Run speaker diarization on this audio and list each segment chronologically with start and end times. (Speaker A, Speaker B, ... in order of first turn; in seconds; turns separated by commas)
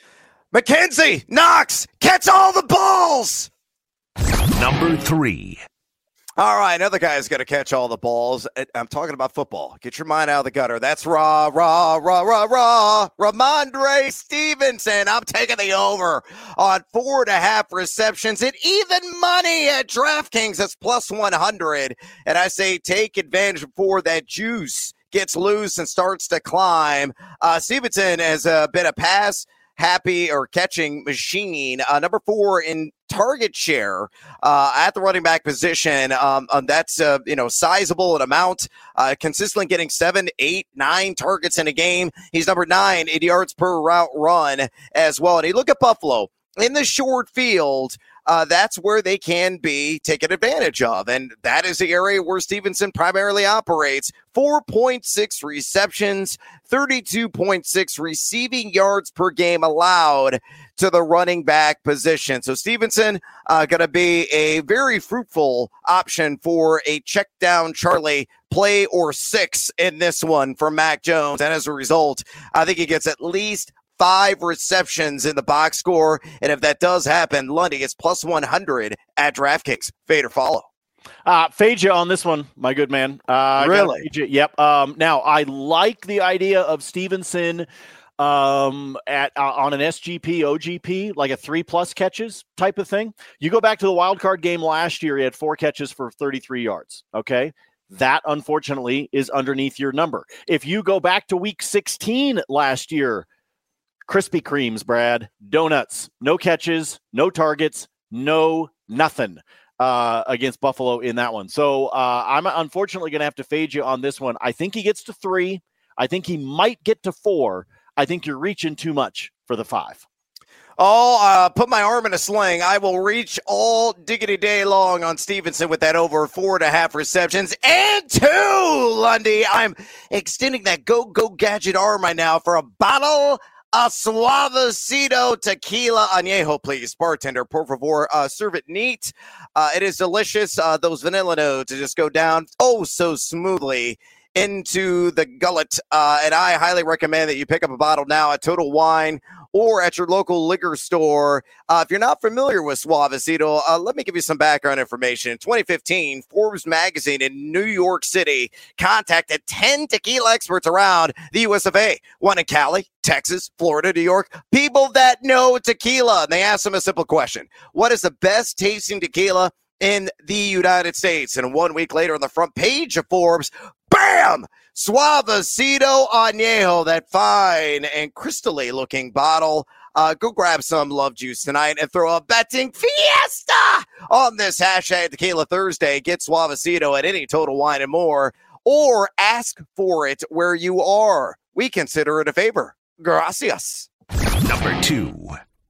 Speaker A: 0.5-3.5, Speaker B: 4.5-5.6, Speaker A: 6.4-80.7, Speaker C: 81.2-87.7, Speaker A: 83.6-84.0, Speaker C: 88.2-103.3, Speaker C: 104.1-120.0, Speaker A: 120.8-193.9, Speaker B: 194.4-195.4